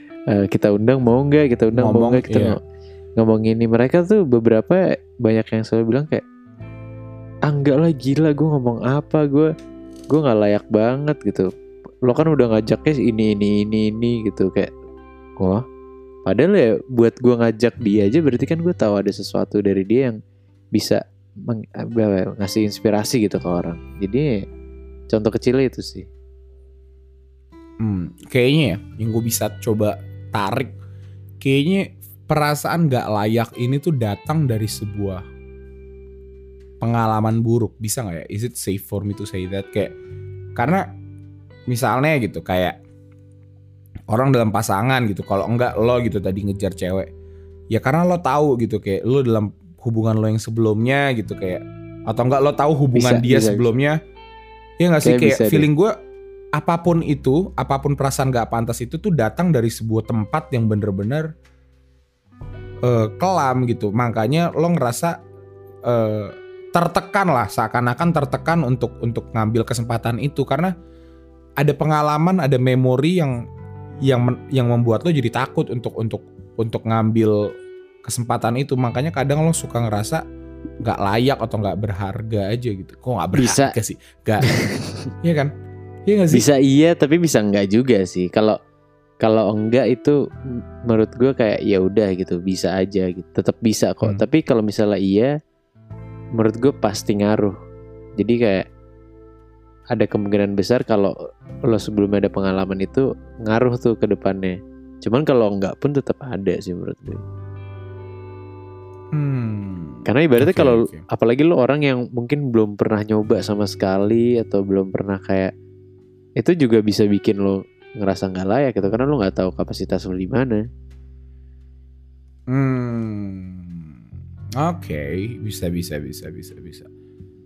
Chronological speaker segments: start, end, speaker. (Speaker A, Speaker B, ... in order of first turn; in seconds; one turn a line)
Speaker A: 0.3-2.6
Speaker B: 1.7-2.5
Speaker A: 3.2-6.2
Speaker A: 7.5-9.5
Speaker A: 10.1-11.5
Speaker A: 12.1-14.7
Speaker A: 16.2-20.2
Speaker A: 20.7-24.3
Speaker A: 25.1-26.1
Speaker B: 27.8-30.7
Speaker B: 31.4-35.2
Speaker B: 36.8-39.9
Speaker B: 40.6-40.9
Speaker B: 41.7-42.8
Speaker B: 44.1-47.1
Speaker B: 47.7-54.0
Speaker A: 52.9-53.7
Speaker B: 54.8-55.9
Speaker A: 55.0-55.7
Speaker B: 56.5-61.3
Speaker B: 62.8-65.1
Speaker B: 65.8-70.7
Speaker B: 71.6-73.3
Speaker B: 74.0-77.4
Speaker B: 78.0-80.2
Speaker B: 80.8-84.5
Speaker A: 83.3-83.7
Speaker A: 84.4-85.1
Speaker B: 85.2-85.5
Speaker B: 86.1-86.5
Speaker A: 86.3-88.6
Speaker A: 89.2-90.1
Speaker A: 90.9-95.3
Speaker A: 96.4-97.5
Speaker A: 98.2-98.6
Speaker A: 99.9-101.1
Speaker A: 101.7-107.2
Speaker B: 109.1-111.0
Speaker A: 110.0-115.5
Speaker A: 116.4-120.6
Speaker B: 122.5-123.9
Speaker B: 124.6-126.9